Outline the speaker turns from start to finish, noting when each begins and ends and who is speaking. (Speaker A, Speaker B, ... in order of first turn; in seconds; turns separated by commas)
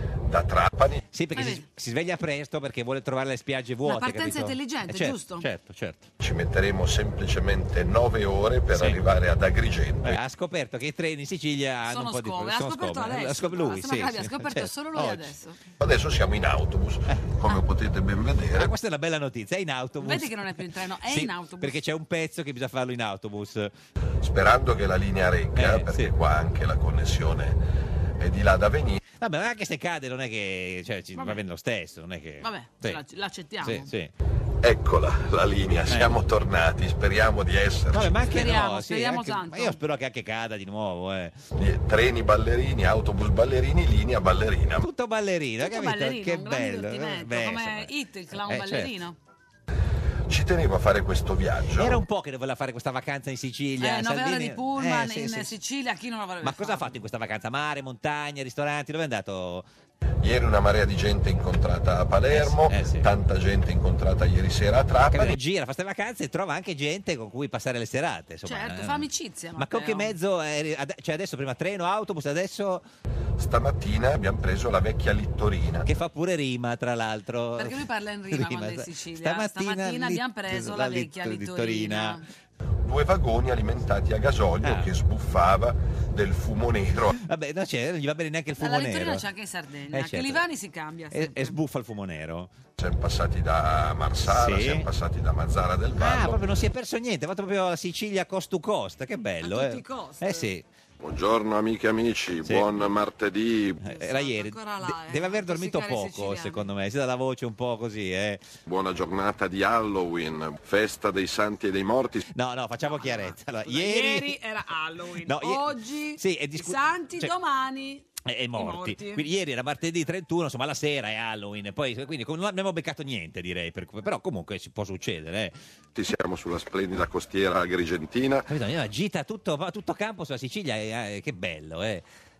Speaker A: 0.2-1.0, Speaker B: 1.1-6.1, Speaker C: 1.3-1.6, Speaker C: 3.8-5.5, Speaker A: 6.2-10.2, Speaker B: 8.7-9.0, Speaker B: 10.0-15.3, Speaker C: 11.9-15.6, Speaker A: 15.8-18.7, Speaker B: 18.6-23.7, Speaker C: 20.0-21.8, Speaker A: 24.2-27.6, Speaker B: 25.6-26.1, Speaker A: 28.2-29.0, Speaker B: 29.1-33.0, Speaker C: 31.1-31.4, Speaker C: 32.4-33.9, Speaker B: 33.6-34.1, Speaker A: 34.6-38.2, Speaker B: 37.9-41.4, Speaker C: 38.2-39.8, Speaker A: 41.5-44.9, Speaker B: 44.8-48.9, Speaker C: 45.6-49.2, Speaker A: 50.3-52.0, Speaker B: 51.8-55.5, Speaker C: 53.8-56.9, Speaker B: 56.4-59.7, Speaker A: 60.2-65.4, Speaker B: 62.3-63.1, Speaker B: 65.1-69.0, Speaker C: 68.4-70.1, Speaker B: 69.6-72.8, Speaker A: 73.4-75.9, Speaker B: 75.8-82.2, Speaker C: 77.6-82.2, Speaker A: 82.8-87.2, Speaker B: 84.6-84.9, Speaker B: 87.2-89.2, Speaker C: 88.6-91.5, Speaker B: 89.9-90.4, Speaker B: 91.1-92.5, Speaker A: 92.8-96.4, Speaker B: 94.2-94.8, Speaker B: 96.0-100.7, Speaker C: 99.4-100.5, Speaker A: 101.0-103.8, Speaker B: 102.4-102.7, Speaker C: 103.8-106.6, Speaker B: 103.8-108.5, Speaker A: 108.7-112.2, Speaker B: 112.3-114.4, Speaker C: 112.8-119.2, Speaker B: 115.2-117.3, Speaker B: 118.2-125.6, Speaker A: 125.9-128.5, Speaker B: 128.5-132.1